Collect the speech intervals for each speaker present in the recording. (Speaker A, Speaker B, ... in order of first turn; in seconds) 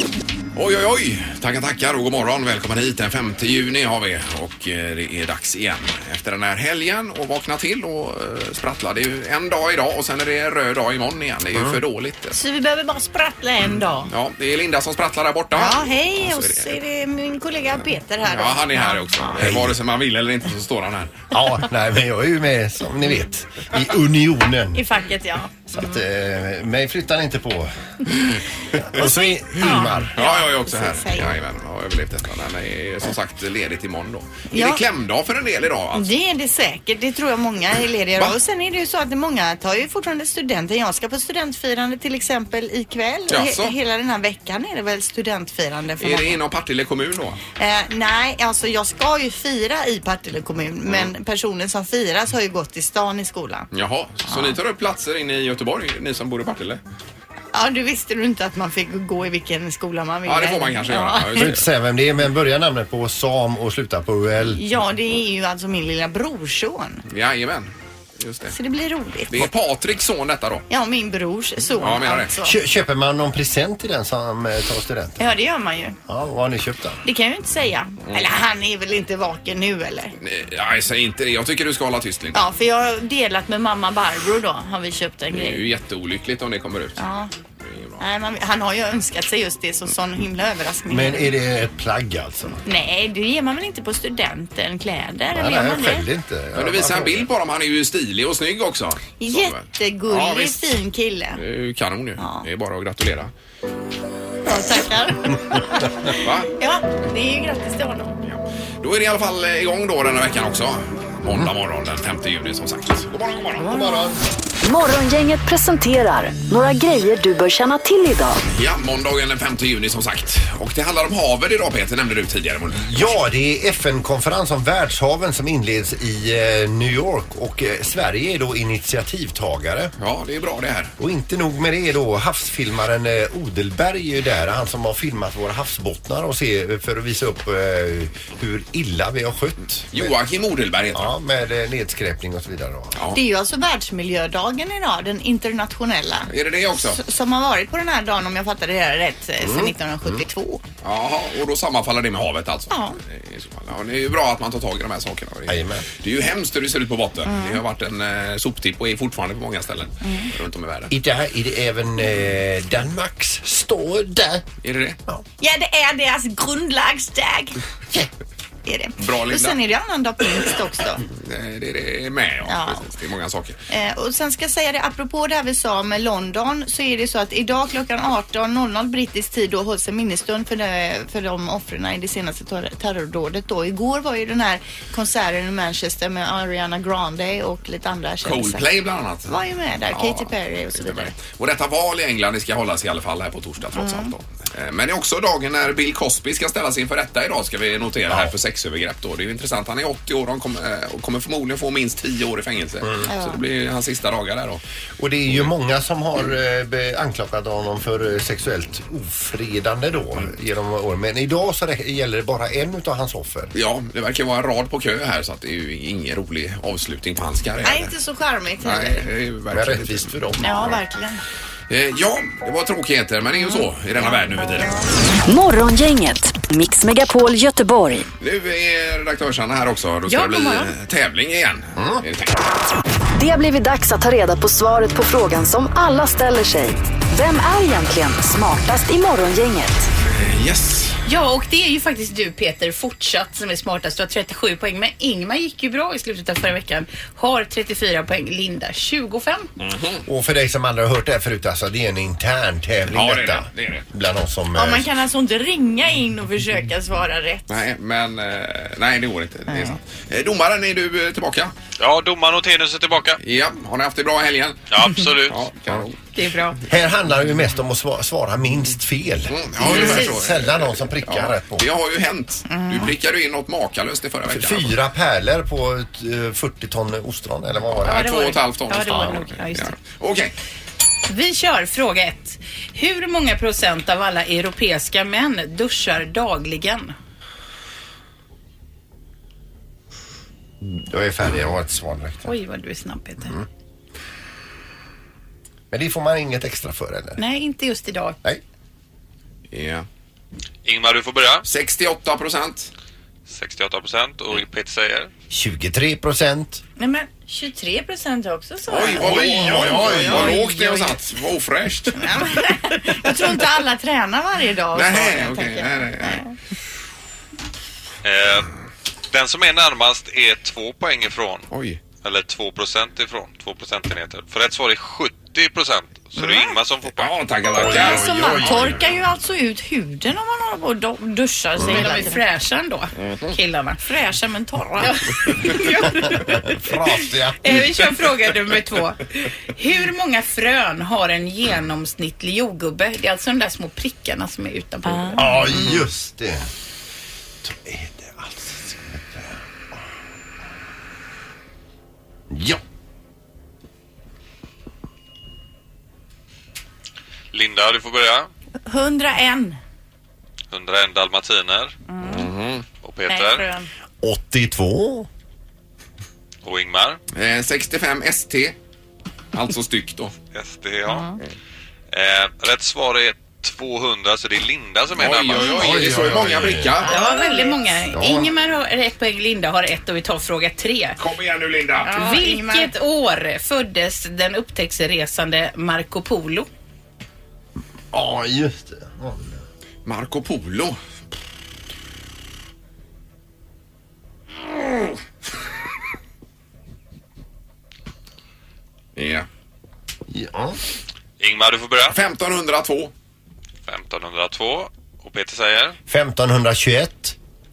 Speaker A: 0.5-12.4, 14.0-16.8, 18.2-21.2, 30.1-36.1, 43.3-43.8, 46.0-47.4, 50.9-51.1, 53.7-56.8, 60.2-61.7, 67.1-68.5, 69.3-70.7, 71.8-72.3, 78.0-78.3, 80.2-82.4, 85.3-87.0, 87.6-88.0, 96.5-100.7, 101.3-103.3, 106.2-106.5, 108.2-113.8, 118.5-123.1, 130.0-130.9, 139.9-141.1, 142.9-143.2, 146.3-147.0, 150.8-160.9, 164.6-165.0, 169.0-169.6, 171.1-173.6, 188.2-189.4, 189.9-204.6, 213.5-217.9, 218.6-220.2, 221.7-224.8, 228.2-232.4, 240.1-241.0, 249.6-250.0, 252.9-253.9, 257.5-261.5, 263.2-264.7, 265.2-266.0, 269.3-274.8, 277.8-280.3, 299.5-299.9, 301.4-302.7, 308.7-312.0, 314.7-316.2, 321.5-321.8, 327.0-328.8, 332.9-333.4, 362.0-362.6, 367.1-368.6, 369.3-370.1, 374.9-377.0, 381.0-381.9, 389.8-390.8, 398.9-399.3, 401.9-402.9
Speaker B: 12.3-14.1, 15.5-19.1, 24.7-26.0, 29.6-31.3, 34.5-34.8, 35.9-46.4, 47.6-53.7, 54.2-54.6, 57.5-61.5, 64.5-67.0, 68.5-69.5, 70.7-72.5, 75.2-76.0, 77.0-80.1, 82.3-85.6, 87.0-87.3, 88.0-91.3, 92.6-96.1, 99.2-101.4, 102.2-102.5, 104.4-108.2, 113.8-114.0, 143.1-150.6, 152.7-153.0, 157.2-157.6, 160.0-160.3, 165.4-167.6, 168.6-171.1, 172.4-172.8, 173.7-188.6, 189.3-191.2, 193.7-194.1, 203.1-203.4, 217.6-219.1, 220.4-221.2, 223.5-224.8, 254.5-257.6, 259.5-259.8, 269.6-270.2, 272.5-272.9, 306.8-311.0, 311.9-316.3, 326.2-326.5, 327.6-332.2, 333.8-334.9, 358.6-359.6, 361.9-362.3, 363.1-363.7, 370.9-371.1, 376.9-377.6, 381.9-382.7
Speaker C: 19.4-19.8, 21.3-24.8, 25.7-27.7, 28.8-30.2, 61.4-64.6, 72.4-75.2, 76.1-77.0, 90.9-92.6, 95.3-97.3, 113.6-114.3, 122.8-129.9, 131.0-140.1, 140.9-143.0, 149.4-150.2, 155.5-155.8, 160.9-164.4, 205.0-213.5, 219.5-220.8, 231.8-232.0, 250.1-254.9, 266.7-271.7, 274.3-278.0, 290.6-292.3, 295.7-297.2, 305.3-306.6, 308.9-310.4, 327.5-328.7, 335.9-337.6, 345.1-346.5, 347.4-349.8, 352.3-352.6, 364.0-365.1, 375.5-376.8, 377.9-378.3, 387.9-389.4, 400.1-400.6, 405.9-407.1
Speaker D: 114.6-118.4, 225.3-228.1, 233.2-239.9
Speaker E: 230.1-230.7, 241.1-249.5, 266.1-266.6, 277.8-279.8, 281.1-286.9, 292.2-293.3, 297.2-298.2, 331.5-333.8, 334.8-336.4, 337.4-345.5, 376.8-381.0, 381.8-386.5
Speaker F: 261.8-263.2, 264.7-265.4, 300.6-301.4, 303.3-305.1, 318.0-318.5, 319.1-321.5, 322.0-327.1, 357.3-358.3, 360.5-361.7, 362.8-363.5, 366.4-367.0, 370.3-371.2, 371.9-375.9, 401.2-402.0, 403.7-405.8